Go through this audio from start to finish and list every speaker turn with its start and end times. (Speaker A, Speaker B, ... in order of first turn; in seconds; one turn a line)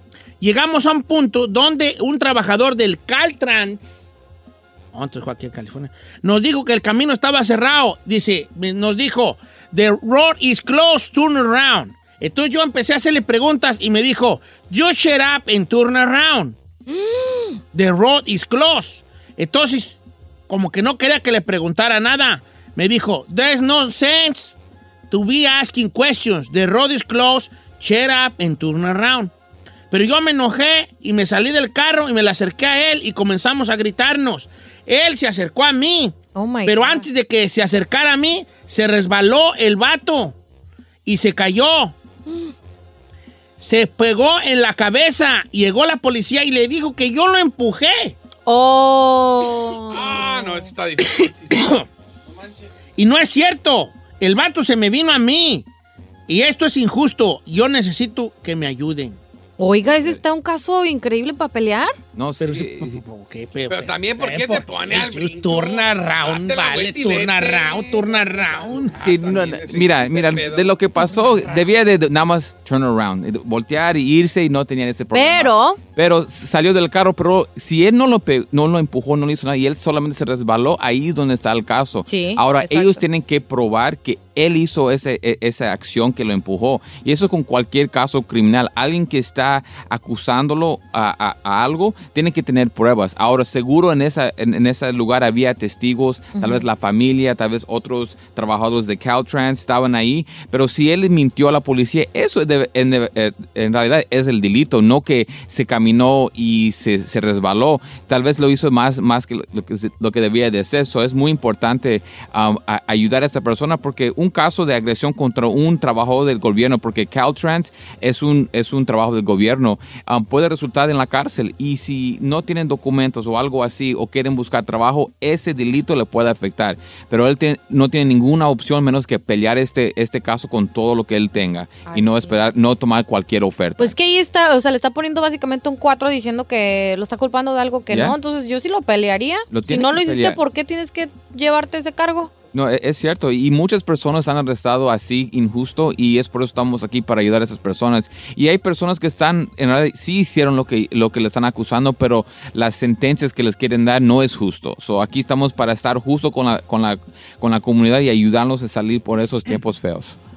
Speaker A: 0.4-4.1
Speaker A: 4.9-16.6
Speaker B: 16.9-17.6
Speaker A: 17.7-20.0
Speaker A: 20.5-24.6
Speaker A: 25.1-29.3
Speaker A: 29.9-40.4
Speaker B: 36.3-37.1
Speaker A: 41.0-42.0
Speaker A: 43.6-48.2
Speaker B: 48.5-50.7
Speaker C: 49.9-51.8
Speaker A: 51.5-51.9
Speaker A: 53.0-55.6
Speaker A: 56.3-59.2
Speaker B: 59.6-62.0
Speaker D: 62.1-63.0
Speaker A: 62.4-69.0
Speaker C: 63.7-71.6
Speaker D: 69.0-133.9
Speaker B: 75.1-75.8
Speaker B: 82.1-83.0
Speaker B: 96.3-96.7
Speaker B: 131.8-132.4
Speaker B: 133.8-142.3
Speaker D: 137.9-138.2
Speaker D: 139.5-140.4
Speaker D: 142.5-160.2